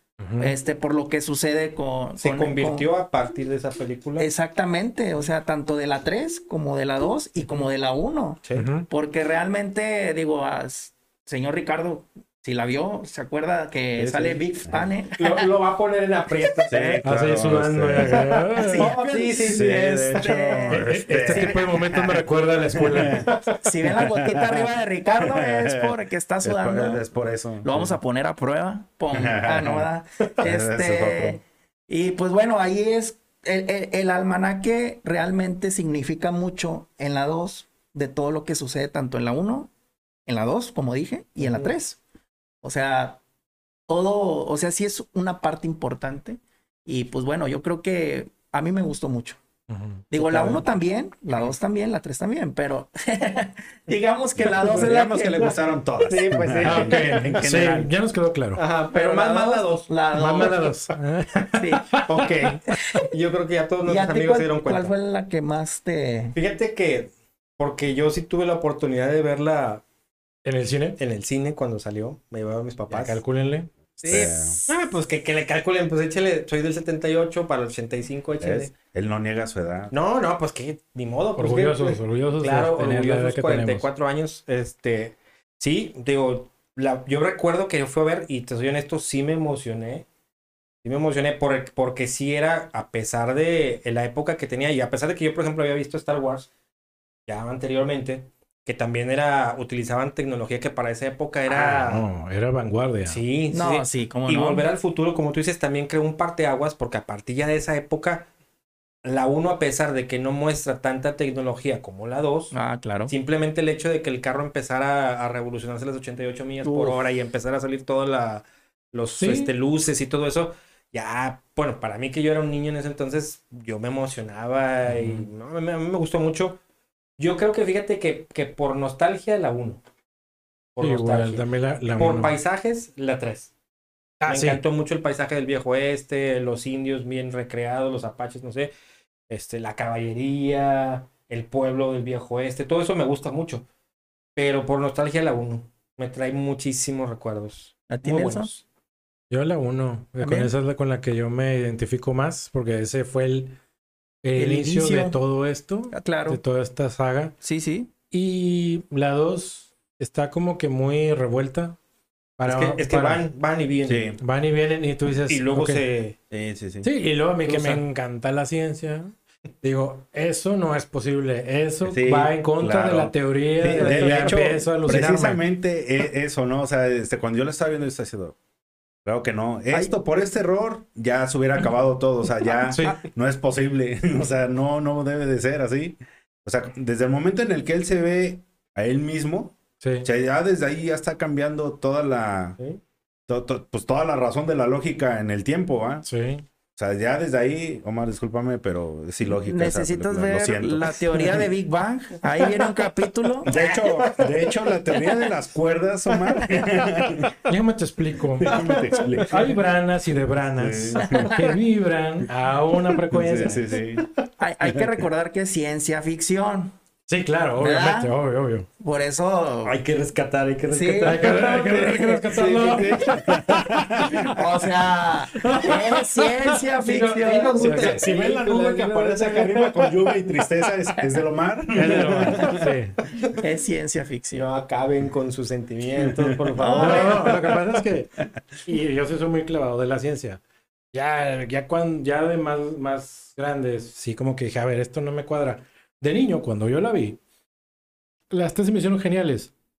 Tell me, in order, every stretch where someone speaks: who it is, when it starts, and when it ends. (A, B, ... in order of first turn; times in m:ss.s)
0:00.2-0:00.6 A
0:00.4-0:02.9 B
0:02.2-0:04.3 C
0:04.2-0:15.5 B
0:08.6-0:08.9 A
0:14.0-0:14.8 D
0:15.2-0:17.0 C
0:16.7-0:18.4 D
0:17.0-0:18.9 A
0:18.0-0:20.8 C
0:18.6-0:20.9 B
0:19.5-0:23.3 D
0:20.7-0:23.3 A
0:23.2-0:23.6 C
0:23.6-0:27.0 B
0:24.0-0:24.6 D
0:25.2-0:28.0 D
0:27.6-0:39.7 B
0:29.1-0:29.9 D
0:30.4-0:31.4 D
0:40.3-0:42.0 B
0:41.4-0:41.7 C
0:42.6-0:43.2 B
0:43.9-0:49.4 B
0:49.7-0:50.0 A
0:50.1-0:55.6 B
0:50.1-0:50.7 C
0:54.4-0:57.9 D
0:54.5-0:54.9 C
0:56.0-0:57.2 C
0:56.6-0:58.6 A
0:58.6-1:00.6 C
0:58.9-1:00.7 B
1:00.1-1:03.0 A
1:01.6-1:02.1 B
1:02.1-1:04.9 C
1:02.7-1:03.1 B
1:03.9-1:06.4 B
1:06.3-1:09.8 C
1:10.4-1:11.0 A
1:11.0-1:13.2 C
1:12.9-1:14.3 A
1:14.0-1:14.6 D
1:14.1-1:18.7 C
1:18.4-1:19.9 D
1:19.9-1:30.1 C
1:21.4-1:23.9 A
1:30.8-1:36.5 C
1:37.3-1:42.1 C
1:41.5-1:41.8 B
1:41.7-1:43.2 A
1:43.0-1:48.3 C
1:43.5-1:44.7 B
1:49.0-1:52.6 C
1:52.5-1:53.1 B
1:53.1-2:06.6 C
1:56.6-1:57.0 B
1:59.2-1:59.5 A
2:04.9-2:05.3 A
2:07.2-2:09.8 C
2:10.8-2:13.5 C
2:10.8-2:12.3 A
2:14.2-2:14.6 A
2:14.3-2:18.7 C
2:19.3-2:23.7 C
2:24.4-2:28.6 C
2:27.9-2:28.5 B
2:29.3-2:33.6 A
2:30.2-2:30.5 B
2:34.2-2:37.4 A
2:34.4-2:35.2 B
2:35.9-2:36.4 B
2:37.4-2:37.9 B
2:38.1-2:41.8 A
2:42.4-2:43.2 A
2:42.4-2:44.1 C
2:43.8-2:44.2 D
2:44.2-2:45.8 A
2:45.3-2:46.2 C
2:46.3-2:46.9 D
2:46.8-2:55.4 A
2:47.4-2:47.8 C
2:51.8-2:58.4 D
2:53.6-2:54.6 C
2:59.0-3:12.6 D
3:02.7-3:03.0 A
3:09.8-3:10.1 A
3:13.3-3:16.1 D
3:16.1-3:16.5 A
3:16.8-3:21.0 D
3:19.2-3:23.5 B
3:22.4-3:22.7 C
3:23.4-3:25.2 C
3:23.4-3:27.4 D
3:26.1-3:27.3 C
3:27.5-3:28.6 A
3:28.4-3:29.5 D
3:28.4-3:29.5 C
3:29.3-3:33.6 A
3:30.6-3:31.3 D
3:31.1-3:31.6 B
3:33.1-3:34.1 D
3:34.4-3:36.8 B
3:37.1-3:38.7 A
3:37.6-3:38.1 B
3:38.8-3:39.8 B
3:39.6-3:43.6 C
3:40.7-3:42.9 B
3:41.0-3:43.7 A
3:43.1-3:44.3 D
3:44.1-3:47.9 B
3:45.4-3:46.0 A
3:45.5-3:45.7 C
3:46.8-3:49.8 C
3:47.5-3:48.1 A
3:47.7-3:52.6 D
3:51.7-3:53.0 A
3:53.3-3:54.5 B
3:54.3-3:57.4 C
3:56.6-3:57.5 B
3:56.8-4:00.4 A
4:00.9-4:07.2 A
4:08.3-4:09.5 A